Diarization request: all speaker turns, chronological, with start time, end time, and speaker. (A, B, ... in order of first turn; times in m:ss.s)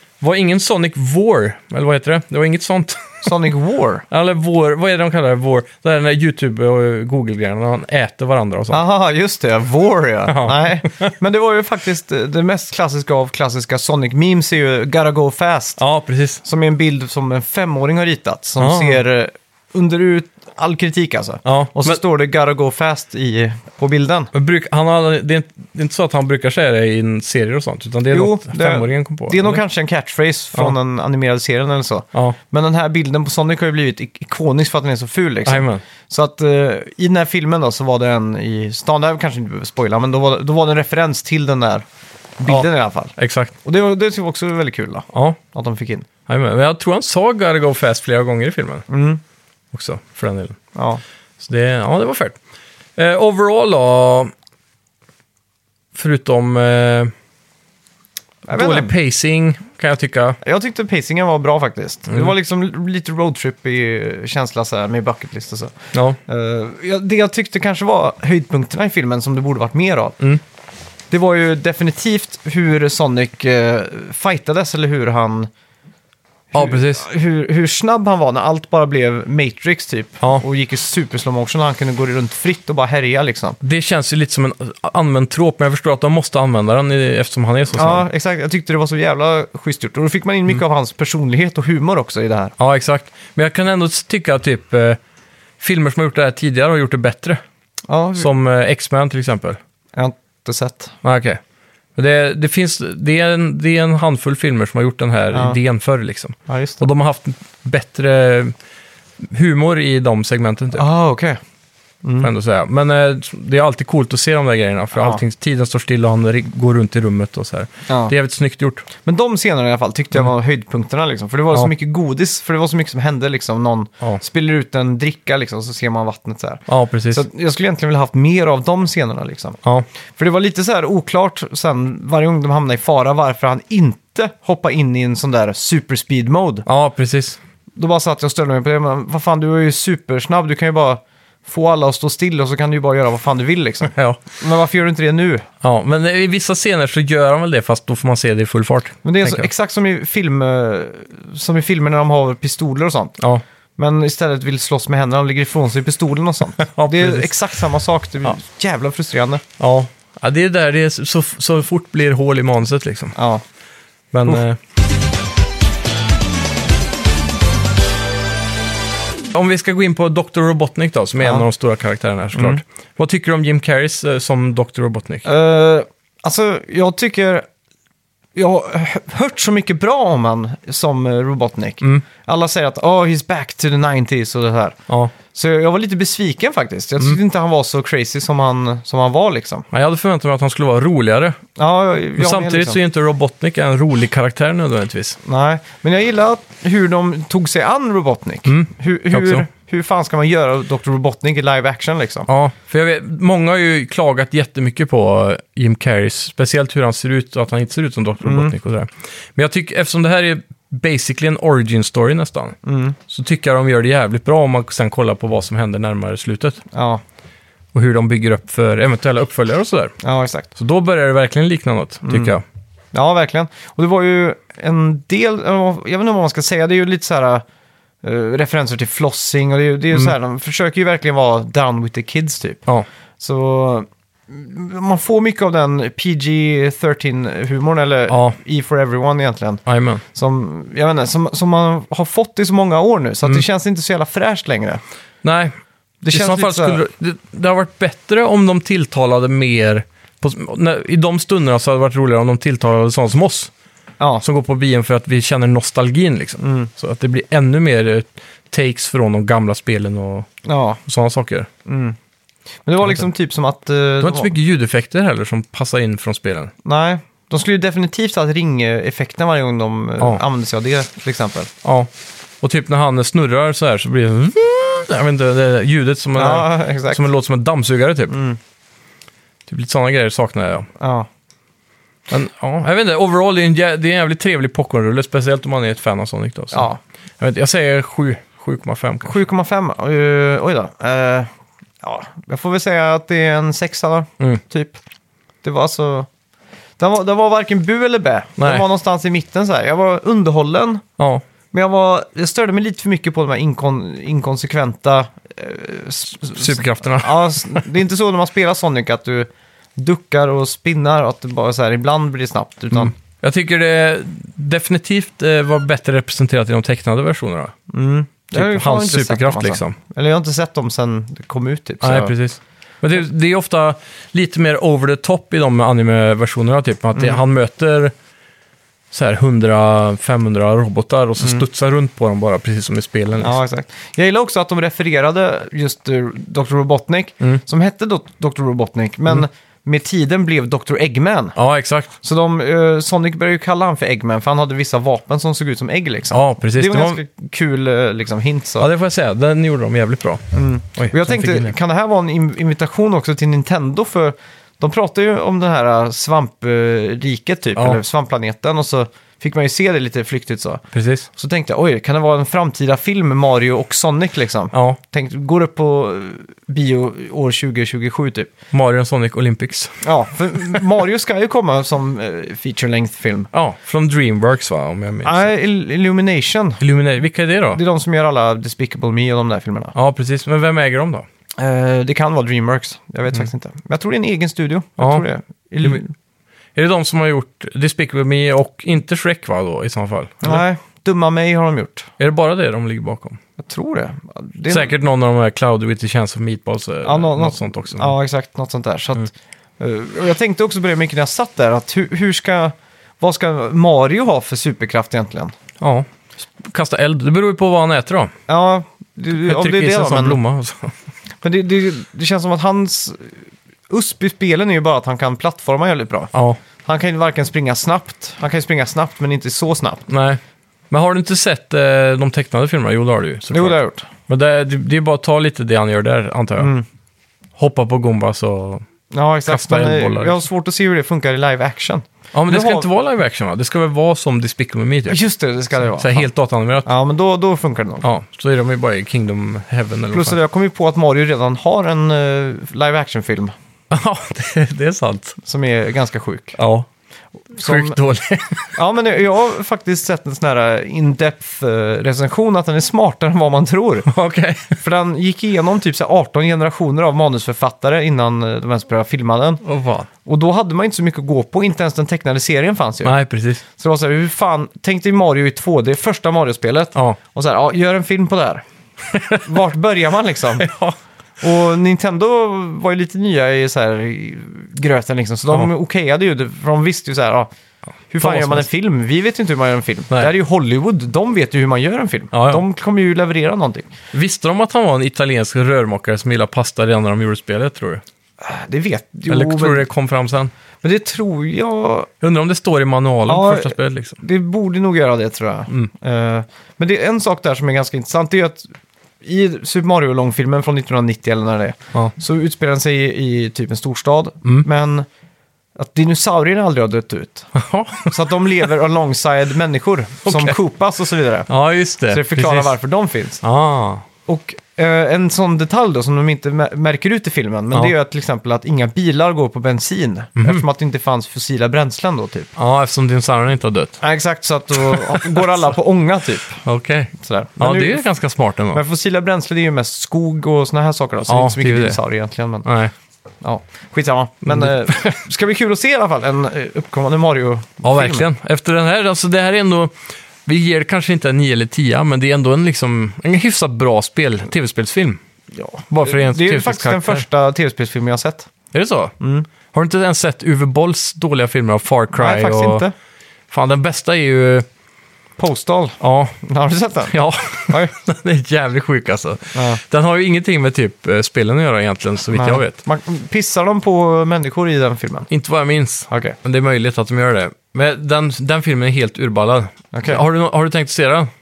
0:00.2-0:03.3 A
0:03.2-0:04.0 B
0:04.1-0:08.8 A
0:08.7-0:15.8 B
0:10.3-0:11.1 A
0:15.8-0:16.4 A
0:16.4-0:24.3 B
0:18.6-0:19.0 A
0:21.4-0:22.0 A
0:24.3-0:29.6 A
0:28.1-0:41.8 B
0:35.4-0:35.8 A
0:42.4-0:46.1 B
0:42.5-0:43.5 A
0:45.1-0:45.4 A
0:46.3-0:48.8 A
0:48.9-0:49.2 B
0:49.7-0:50.6 A
0:50.8-0:51.0 B
0:51.4-0:52.4 A
0:53.0-0:54.3 A
0:55.9-0:57.1 A
0:58.5-0:58.9 B
0:58.5-1:00.4 A
1:00.4-1:10.2 B
1:05.9-1:06.2 A
1:11.1-1:15.5 B
1:16.5-1:23.6 B
1:16.5-1:17.0 A
1:23.6-1:28.1 A
1:27.7-1:32.5 B
1:32.6-1:35.0 A
1:35.6-1:37.4 A
1:37.9-1:38.3 B
1:38.2-1:39.6 A
1:40.0-1:41.0 B
1:41.0-1:41.4 A
1:42.0-1:48.6 A
1:46.5-1:46.8 B
1:49.2-1:50.8 A
1:50.7-1:51.4 B
1:52.0-1:52.3 B
1:52.2-1:58.9 A
1:54.9-1:55.2 B
1:57.9-1:58.1 B
1:59.0-2:09.6 B
2:06.7-2:07.2 A
2:10.2-2:16.7 B
2:16.7-2:17.4 A
2:17.8-2:25.5 B
2:23.9-2:24.2 A
2:25.6-2:29.5 A
2:29.0-2:33.2 B
2:33.8-2:39.4 B
2:36.6-2:37.4 A
2:39.6-2:43.2 A
2:43.2-2:43.4 B
2:44.1-2:44.6 A
2:49.3-2:55.3 A
2:51.2-2:51.5 B
2:52.4-2:52.6 B
2:55.2-2:57.5 B
2:58.4-3:04.8 B
3:05.3-3:09.7 B
3:09.7-3:11.4 A
3:11.6-3:12.8 B
3:12.2-3:15.2 A
3:15.2-3:22.3 B
3:18.5-3:19.5 A
3:22.3-3:36.6 A
3:28.2-3:28.5 B
3:32.6-3:33.0 B
3:36.7-3:37.0 B
3:37.7-3:40.0 A
3:40.0-3:40.5 B
3:40.6-3:42.4 A
3:42.0-3:42.4 B
3:42.9-3:47.4 B
3:48.0-3:52.7 B
3:53.2-4:04.8 B
3:58.1-3:58.4 A
3:59.7-4:00.0 A
4:05.2-4:05.6 A
4:06.0-4:06.8 B
4:06.1-4:13.5 A
4:14.2-4:20.3 A
4:16.4-4:16.7 B
4:20.4-4:20.8 B
4:20.8-4:21.5 A
4:21.7-4:22.0 B
4:22.6-4:24.3 B
4:24.0-4:26.5 A
4:26.6-4:31.5 B
4:31.6-4:31.9 A
4:32.4-4:38.1 A
4:36.2-4:37.0 B
4:38.1-4:38.4 B
4:39.5-4:40.7 A
4:40.8-4:41.1 B
4:42.1-4:46.7 A
4:46.5-4:46.8 B
4:47.2-4:49.2 A
4:49.0-4:51.3 B
4:51.8-4:54.8 B
4:55.4-4:56.1 B
4:56.8-5:00.8 B
4:58.4-4:58.6 A
5:01.0-5:01.2 A
5:01.5-5:12.9 B
5:06.4-5:07.6 A
5:12.7-5:17.5 A
5:17.7-5:22.2 B
5:18.3-5:19.8 A
5:21.8-5:27.9 A
5:27.0-5:27.2 B
5:28.9-5:33.4 A
5:33.2-5:41.4 B
5:41.4-5:41.9 A
5:42.0-5:48.7 B
5:46.1-5:47.0 A
5:48.6-5:51.5 A
5:50.3-6:08.3 B
6:00.7-6:01.1 A
6:04.5-6:04.8 A
6:08.5-6:09.8 A
6:09.8-6:13.3 B
6:13.3-6:15.3 A
6:15.0-6:16.6 B
6:16.6-6:17.6 A
6:17.5-6:19.7 B
6:19.8-6:21.1 A
6:21.4-6:25.9 B
6:24.8-6:25.0 A
6:26.6-6:30.4 A
6:30.2-6:31.9 B
6:32.0-6:33.2 A
6:33.4-6:34.8 B
6:34.5-6:37.9 A
6:36.8-6:45.3 B
6:45.6-6:45.9 A
6:46.4-6:48.1 A
6:48.3-6:50.2 B
6:49.2-6:50.8 A
6:51.2-6:53.2 B
6:53.7-6:56.1 B
6:56.1-6:56.4 A
6:56.6-6:59.9 B
6:59.9-7:03.6 A
7:03.3-7:03.9 B
7:04.1-7:06.5 A
7:06.4-7:06.6 B
7:07.4-7:08.6 A
7:08.9-7:12.7 B
7:09.3-7:10.2 A
7:12.1-7:15.0 A
7:14.9-7:16.1 B
7:15.6-7:16.7 A
7:16.6-7:17.9 B
7:17.8-7:20.2 A
7:19.9-7:23.3 B
7:23.7-7:25.2 A
7:25.2-7:26.4 B
7:26.4-7:26.7 A
7:27.3-7:27.8 B
7:27.4-7:28.5 A
7:28.6-7:33.9 B
7:33.9-7:34.6 A
7:34.6-7:39.4 B
7:39.4-7:39.9 A
7:40.0-7:43.0 B
7:42.8-7:43.4 A
7:43.6-7:48.4 B
7:48.9-7:49.2 A
7:49.2-7:50.5 B
7:50.4-7:50.8 A
7:51.2-7:57.3 B
7:57.9-8:03.7 B
7:58.0-7:58.5 A
8:02.1-8:02.4 A
8:03.9-8:07.8 A
8:08.2-8:09.7 B
8:09.1-8:10.3 A
8:10.6-8:11.9 B
8:12.0-8:14.0 A
8:13.1-8:18.5 B
8:19.0-8:24.9 B
8:25.6-8:27.3 B
8:27.4-8:28.0 A
8:27.9-8:31.3 B
8:30.1-8:30.4 A
8:31.3-8:32.6 A
8:31.9-8:33.2 B
8:33.2-8:33.8 A
8:34.1-8:42.3 B
8:40.2-8:40.4 A
8:42.4-8:43.8 A
8:43.8-8:46.4 B
8:44.6-8:45.4 A
8:46.4-8:48.6 A
8:47.0-8:47.9 B
8:48.5-8:52.5 B
8:51.1-8:51.8 A
8:52.4-8:52.7 A
8:53.2-8:58.1 B
8:54.3-8:55.0 A
8:57.6-9:05.0 A
9:05.3-9:08.3 B
9:05.7-9:07.0 A
9:08.5-9:08.9 A
9:09.0-9:09.3 B
9:09.5-9:12.6 A
9:11.9-9:12.7 B
9:13.3-9:14.5 A
9:15.2-9:16.9 B
9:15.8-9:16.2 A
9:16.9-9:22.6 A
9:17.5-9:17.7 B
9:19.3-9:19.6 B
9:22.1-9:25.1 B
9:25.1-9:31.1 A
9:25.9-9:26.2 B
9:29.7-9:30.0 B